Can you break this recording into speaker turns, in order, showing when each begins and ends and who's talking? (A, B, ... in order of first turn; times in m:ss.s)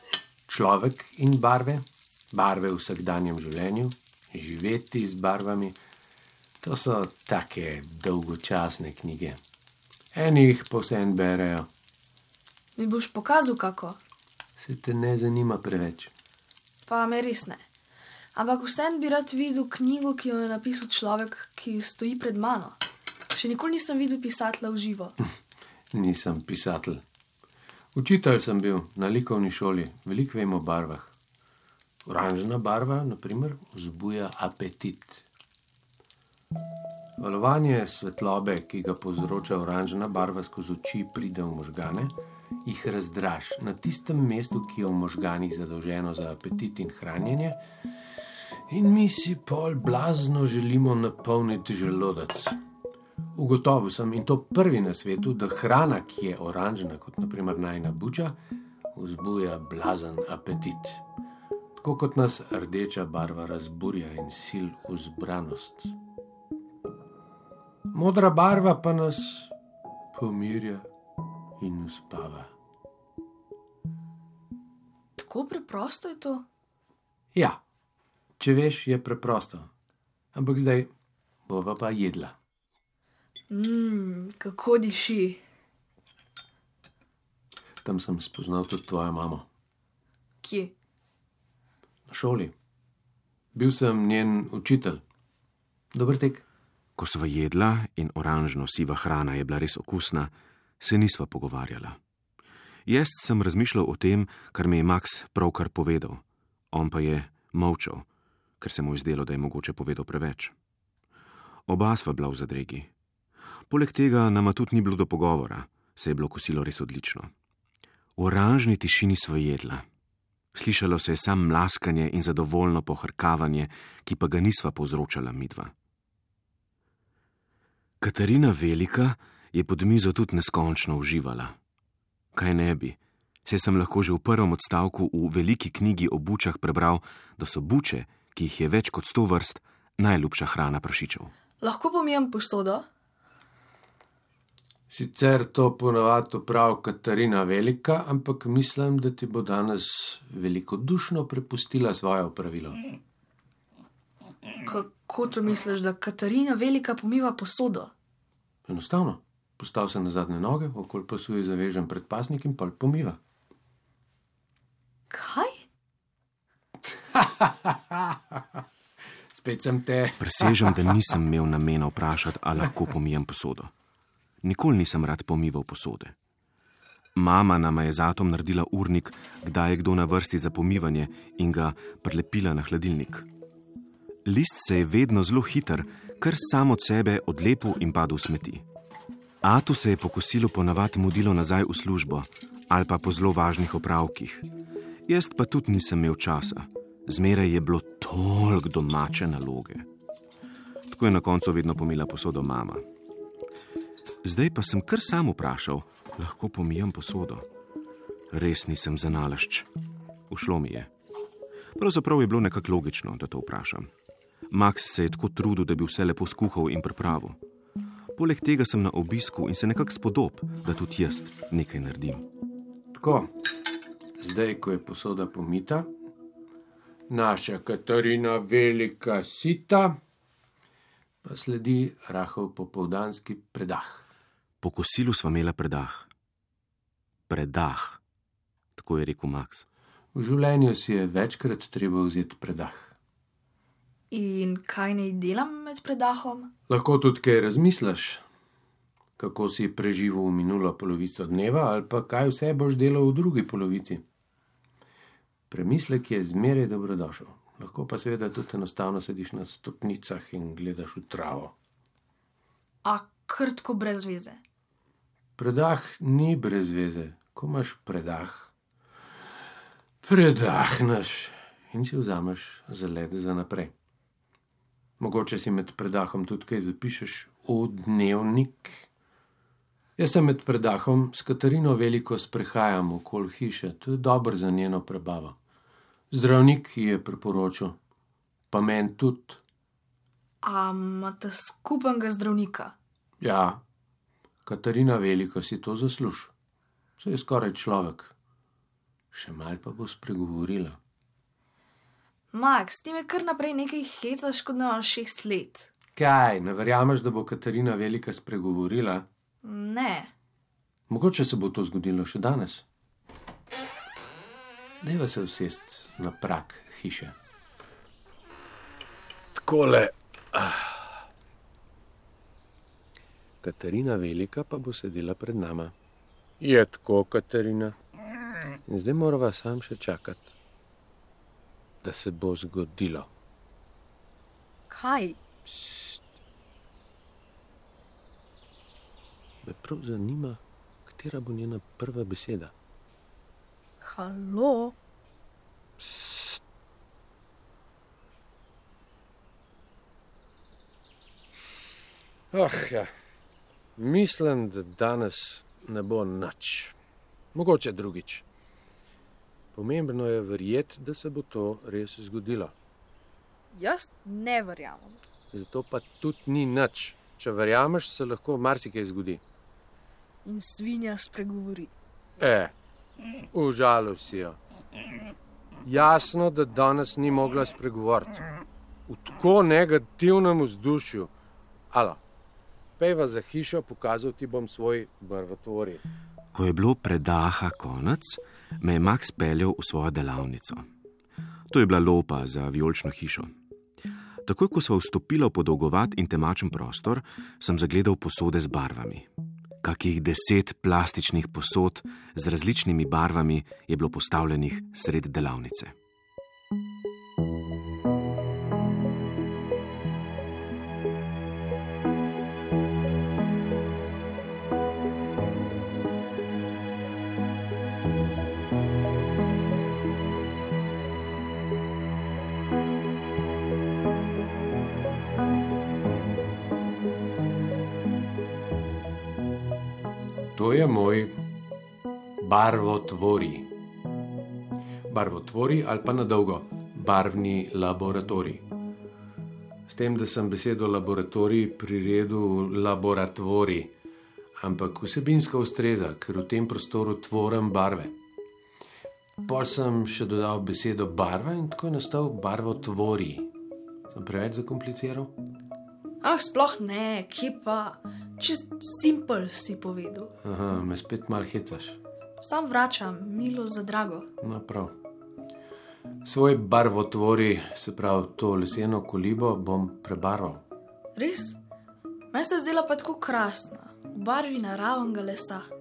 0:00.5-0:05.8 A
0:06.6-0:09.4 A
0:10.1-0:11.7 A
0:12.8-0:14.0 B
0:14.6-0:16.1 A
0:16.9-0:17.6 B
0:18.4-0:22.8 B
0:23.3-0:25.2 B
0:25.9-0:27.0 A
0:28.0-0:31.1 A
0:32.1-0:35.2 A
0:37.2-0:47.6 A
0:48.7-0:52.6 A
0:53.4-0:58.4 A
0:58.9-1:01.0 A
1:01.8-1:06.0 A
1:07.9-1:09.5 A
1:10.1-1:10.9 A
1:11.6-1:12.5 A
1:15.2-1:16.4 B
1:17.3-1:17.6 A
1:18.4-1:19.7 A
1:20.3-1:20.9 A
1:21.5-1:22.4 A
1:23.5-1:25.4 B
1:27.8-1:29.5 A
1:30.4-1:30.7 B
1:32.1-1:32.5 A
1:33.6-1:35.0 A
1:35.9-1:36.4 A
1:37.0-1:42.0 C
1:42.9-1:48.0 C
1:48.6-1:50.5 C
1:51.7-1:52.9 C
1:53.7-1:57.3 C
1:58.2-1:59.8 C
2:00.5-2:05.7 C
2:08.0-2:11.6 C
2:12.3-2:21.3 C
2:21.6-2:22.9 B
2:24.9-2:32.8 A
2:34.7-2:37.9 B
2:38.7-2:43.2 A
2:45.1-2:45.7 B
2:47.1-2:48.6 A
2:49.3-2:51.0 A
2:50.2-2:53.7 C
2:54.4-2:56.1 C
2:57.2-3:03.3 C
3:04.3-3:08.6 C
3:09.4-3:14.5 C
3:15.1-3:19.9 C
3:20.9-3:22.8 C
3:24.2-3:27.5 C
3:28.3-3:29.7 C
3:30.3-3:30.9 C
3:31.8-3:33.9 C
3:34.5-3:37.4 C
3:38.2-3:42.3 C
3:42.9-3:43.3 A
3:44.2-3:45.9 A
3:47.1-3:50.0 A
3:51.2-3:54.1 A
3:54.6-3:56.1 C
3:57.3-3:58.0 C
3:58.8-3:59.6 C
4:00.2-4:02.9 A
4:04.1-4:06.5 B
4:06.7-4:08.2 A
4:09.2-4:14.0 A
4:15.5-4:21.5 A
4:22.8-4:24.4 B
4:25.4-4:28.5 A
4:30.0-4:33.7 A
4:35.0-4:38.8 A
4:40.0-4:45.4 A
4:46.1-4:47.8 A
4:48.5-4:49.4 A
4:50.4-4:52.7 B
4:53.2-4:53.6 A
4:54.5-4:56.3 A
4:57.0-4:58.1 A
4:59.1-5:00.8 A
5:02.3-5:05.7 B
5:06.0-5:09.1 A
5:09.4-5:10.1 B
5:10.9-5:12.6 A
5:14.8-5:17.2 A
5:19.4-5:21.0 A
5:23.4-5:25.8 A
5:26.4-5:27.8 A
5:28.7-5:30.3 A
5:31.8-5:33.1 A
5:34.7-5:35.2 B
5:35.5-5:36.0 A
5:39.4-5:42.5 A
5:43.8-5:44.8 B
5:45.8-5:46.4 A
5:52.3-5:52.9 A
5:53.8-5:56.8 A
5:57.3-5:58.2 A
5:59.5-6:02.5 A
6:03.5-6:05.0 B
6:05.3-6:09.2 A
6:10.2-6:11.7 B
6:12.2-6:12.5 A
6:13.3-6:14.4 A
6:15.6-6:18.2 A
6:18.9-6:21.1 A
6:21.7-6:22.0 A
6:22.8-6:25.9 A
6:26.3-6:30.6 C
6:31.5-6:33.3 C
6:34.2-6:39.1 C
6:39.6-6:45.7 C
7:10.4-7:11.2 A
7:12.2-7:13.5 A
7:14.9-7:18.5 A
7:19.7-7:23.7 A
7:24.4-7:28.0 A
7:29.2-7:33.3 A
7:33.9-7:35.1 A
7:36.0-7:40.1 B
7:40.2-7:41.8 A
7:42.2-7:44.1 B
7:44.2-7:44.7 A
7:46.0-7:50.4 A
7:51.0-7:51.4 B
7:52.1-7:55.5 B